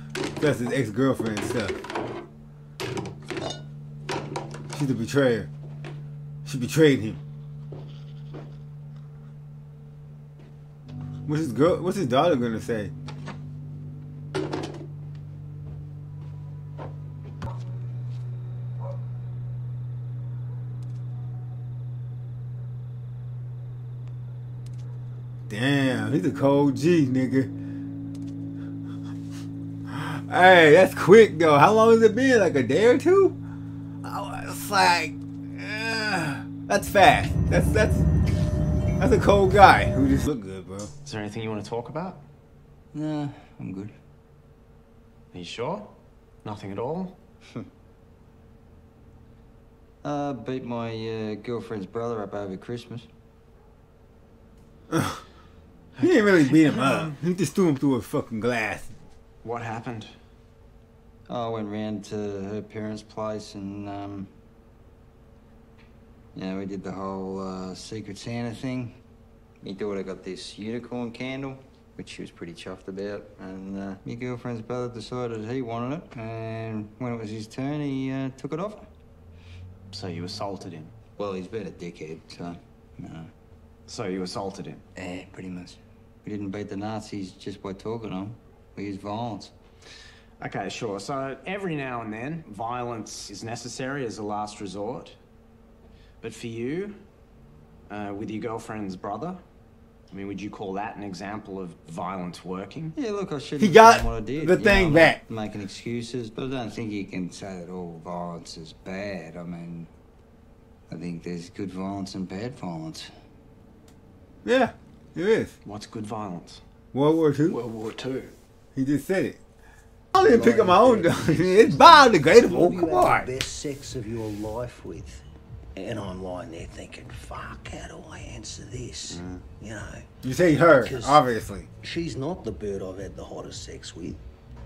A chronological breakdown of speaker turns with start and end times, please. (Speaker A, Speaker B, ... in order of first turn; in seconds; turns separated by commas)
Speaker A: 0.4-1.8, Speaker A: 4.7-5.5, Speaker A: 6.5-7.2, Speaker A: 11.3-12.9, Speaker A: 25.5-27.5, Speaker A: 29.9-33.4, Speaker A: 34.0-38.1, Speaker A: 39.0-40.9, Speaker B: 41.0-42.2, Speaker C: 42.9-43.9, Speaker B: 45.3-47.2, Speaker C: 50.0-53.1, Speaker A: 54.9-55.2, Speaker B: 56.0-57.2, Speaker A: 56.0-58.9, Speaker B: 59.4-60.1, Speaker C: 61.3-64.3, Speaker C: 66.3-69.0, Speaker C: 69.6-78.9, Speaker B: 79.9-80.9, Speaker C: 81.2-83.3, Speaker B: 83.9-84.8, Speaker C: 85.0-89.5, Speaker B: 90.4-95.2, Speaker B: 96.2-97.0, Speaker B: 97.9-99.4, Speaker B: 100.1-103.0, Speaker C: 103.0-109.9, Speaker A: 103.6-105.2, Speaker C: 110.9-113.1, Speaker A: 114.5-115.6, Speaker B: 115.6-116.6, Speaker A: 116.9-117.6, Speaker B: 117.5-118.3, Speaker A: 118.8-119.4, Speaker A: 120.1-123.3, Speaker D: 120.2-125.2, Speaker D: 125.8-130.1, Speaker B: 129.1-129.4, Speaker A: 130.2-131.7, Speaker D: 130.6-131.3, Speaker D: 131.8-134.2